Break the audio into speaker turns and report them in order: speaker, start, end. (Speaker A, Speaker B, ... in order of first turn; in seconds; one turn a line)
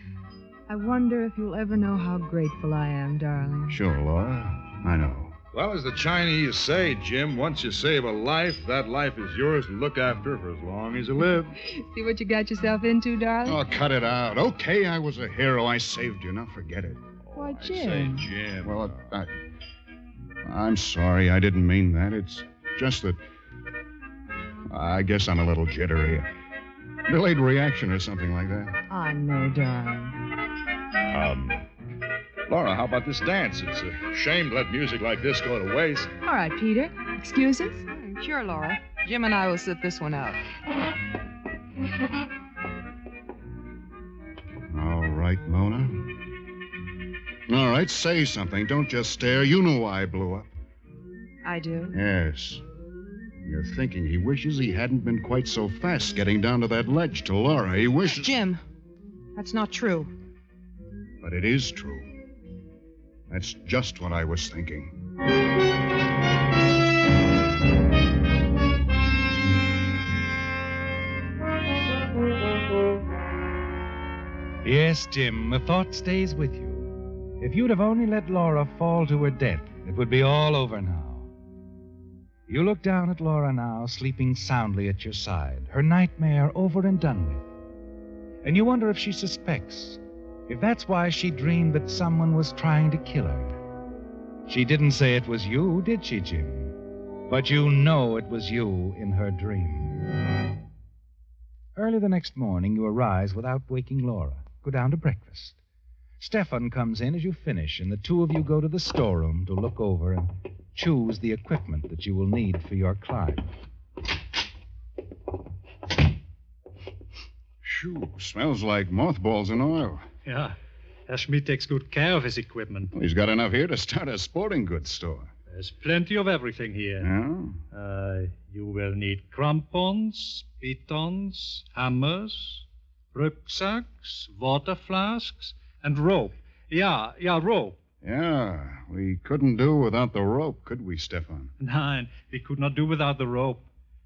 Speaker A: 0.7-3.8
Speaker B: 3.7-5.4
Speaker C: 5.5-11.5
Speaker A: 11.6-13.6
Speaker B: 13.4-17.1
Speaker C: 17.3-19.0
Speaker A: 17.4-18.3
Speaker B: 18.6-19.3
Speaker B: 20.4-23.2
Speaker B: 24.7-26.3
Speaker B: 27.1-28.8
Speaker A: 28.9-30.2
Speaker C: 31.1-31.7
Speaker C: 32.5-36.1
Speaker A: 36.2-37.8
Speaker D: 37.9-40.4
Speaker B: 44.7-46.2
Speaker B: 47.5-50.5
Speaker D: 51.4-52.0
Speaker B: 51.9-52.6
Speaker B: 53.5-58.3
Speaker D: 58.1-58.6
Speaker D: 59.4-60.1
Speaker B: 61.2-62.1
Speaker B: 63.3-65.0
Speaker E: 74.6-81.3
Speaker E: 82.5-87.5
Speaker E: 88.4-93.6
Speaker E: 94.5-96.8
Speaker E: 97.3-100.0
Speaker E: 101.8-105.6
Speaker E: 106.2-113.5
Speaker B: 117.6-120.0
Speaker F: 120.3-122.9
Speaker B: 122.9-125.3
Speaker F: 125.5-127.1
Speaker B: 127.0-127.6
Speaker F: 127.7-137.8
Speaker B: 138.0-141.5
Speaker F: 141.6-143.7